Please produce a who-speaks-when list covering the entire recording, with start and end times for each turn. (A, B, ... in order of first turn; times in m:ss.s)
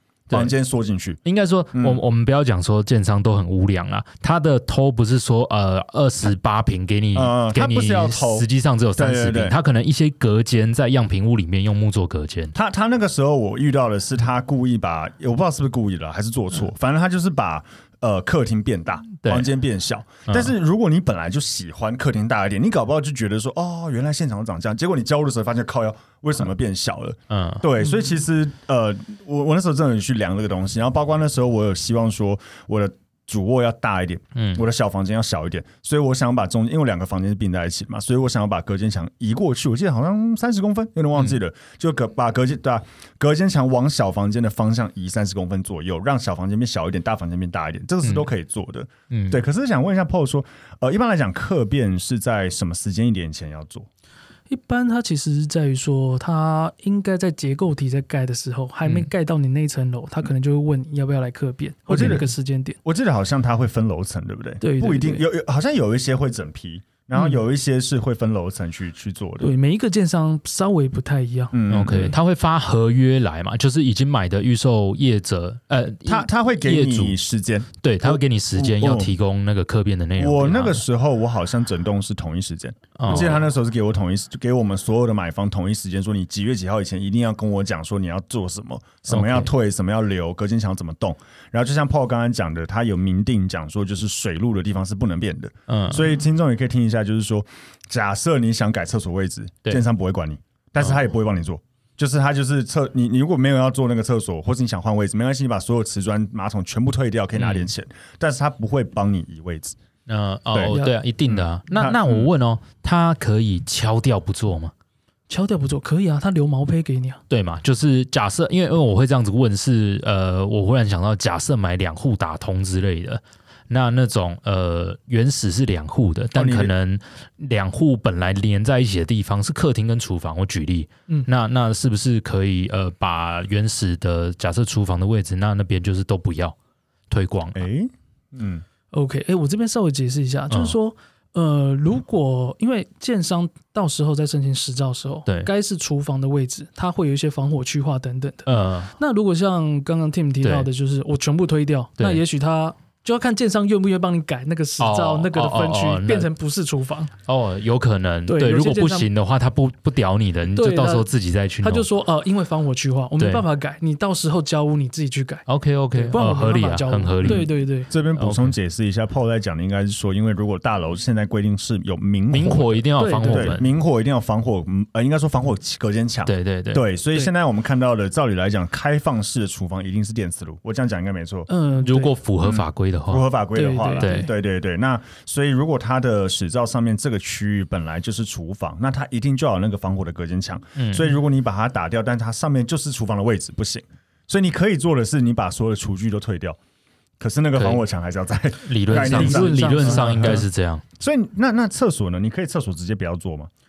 0:00.3-0:01.2 A
0:01.2-0:12.6 B
0:01.8-0:02.0 A
0:07.1-0:09.6 A
0:12.5-0:53.9 A
0:19.2-0:19.5 B
0:20.3-0:20.5 B
0:27.3-0:27.7 B
0:34.4-0:34.6 B
0:49.1-0:49.4 B
0:54.5-1:02.8 C
0:58.8-0:59.1 B
1:01.9-1:02.3 A
1:02.8-1:09.5 A
1:04.6-1:05.2 C
1:09.4-1:11.6 C
1:11.5-1:12.2 A
1:11.7-1:17.2 B
1:16.1-1:19.1 A
1:17.8-1:20.8 B
1:20.2-1:49.8 A
1:23.0-1:23.5 B
1:29.1-1:29.5 B
1:35.7-1:36.1 B
1:47.4-1:47.7 B
1:50.1-1:54.7 B
1:50.5-1:52.3 A
1:50.7-1:51.0 C
1:55.3-1:57.2 C
1:57.3-2:16.6 B
2:06.3-2:06.7 A
2:17.1-2:17.6 B
2:17.6-2:18.6 A
2:18.9-2:37.1 C
2:28.5-2:29.0 B
2:30.4-2:30.7 B
2:34.8-2:36.3 B
2:37.3-2:41.9 B
2:38.3-2:39.1 C
2:40.5-2:41.1 C
2:41.6-2:47.9 C
2:43.2-2:43.4 B
2:45.5-2:47.5 B
2:47.2-3:01.5 A
2:48.2-2:48.6 B
2:52.3-2:53.7 B
2:53.0-2:53.6 C
2:56.3-2:56.8 B
3:01.5-3:02.2 C
3:01.8-3:03.3 B
3:02.4-3:16.6 A
3:03.6-3:04.3 C
3:04.0-3:04.3 B
3:10.8-3:11.1 B
3:17.2-3:20.5 A
3:17.6-3:17.8 B
3:18.6-3:20.8 B
3:18.9-3:20.4 C
3:21.0-3:23.5 A